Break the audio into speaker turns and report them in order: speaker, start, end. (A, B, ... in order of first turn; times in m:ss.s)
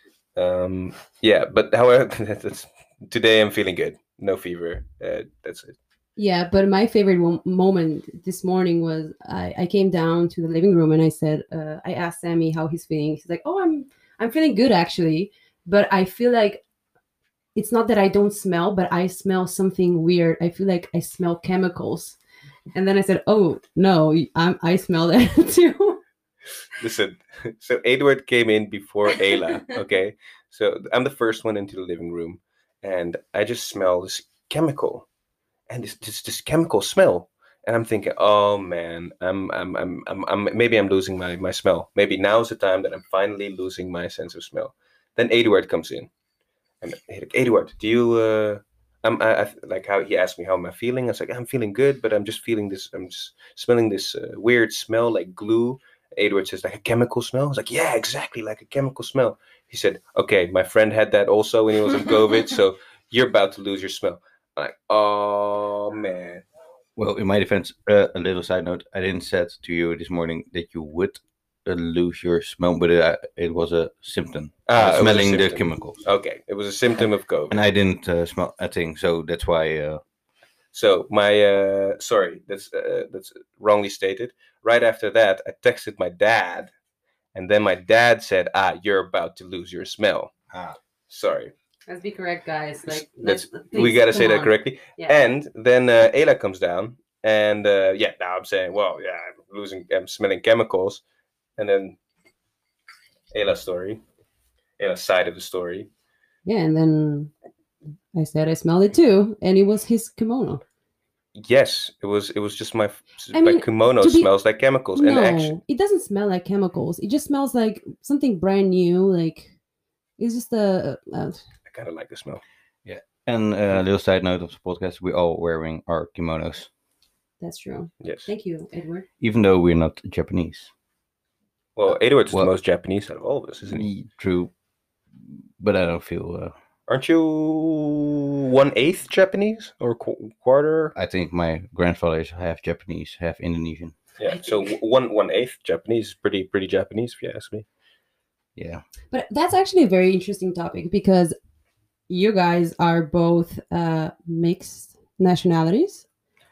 0:00.4-0:05.8 A
0:06.2-0:16.6 B
0:17.6-0:22.2 B
0:22.7-0:26.0 B
0:26.7-0:35.1 A
0:35.7-0:46.1 A
0:46.8-1:06.4 A
1:07.0-1:16.0 C
1:14.7-1:17.6 A
1:17.5-1:20.0 C
1:20.7-1:26.7 A
1:27.4-1:30.3 A
1:31.1-1:31.5 A
1:31.9-1:35.2 B
1:32.9-1:41.0 A
1:41.6-1:42.0 A
1:43.3-1:44.0 A
1:44.8-1:45.9 A
1:46.4-1:47.3 B
1:48.1-1:50.6 B
1:51.4-1:55.5 A
1:53.3-1:54.3 B
1:55.0-1:59.5 B
2:00.2-2:01.4 B
2:01.7-2:02.4 A
2:02.8-2:06.7 C
2:07.4-2:09.1 B
2:08.0-2:08.3 A
2:09.2-2:10.7 C
2:11.8-2:13.9 A
2:13.7-2:14.5 C
2:15.3-2:16.5 C
2:16.9-2:20.9 A
2:20.9-2:24.0 C
2:24.2-2:27.7 A
2:24.4-2:24.6 B
2:28.6-2:28.8 C
2:29.1-2:31.4 B
2:32.1-2:36.1 B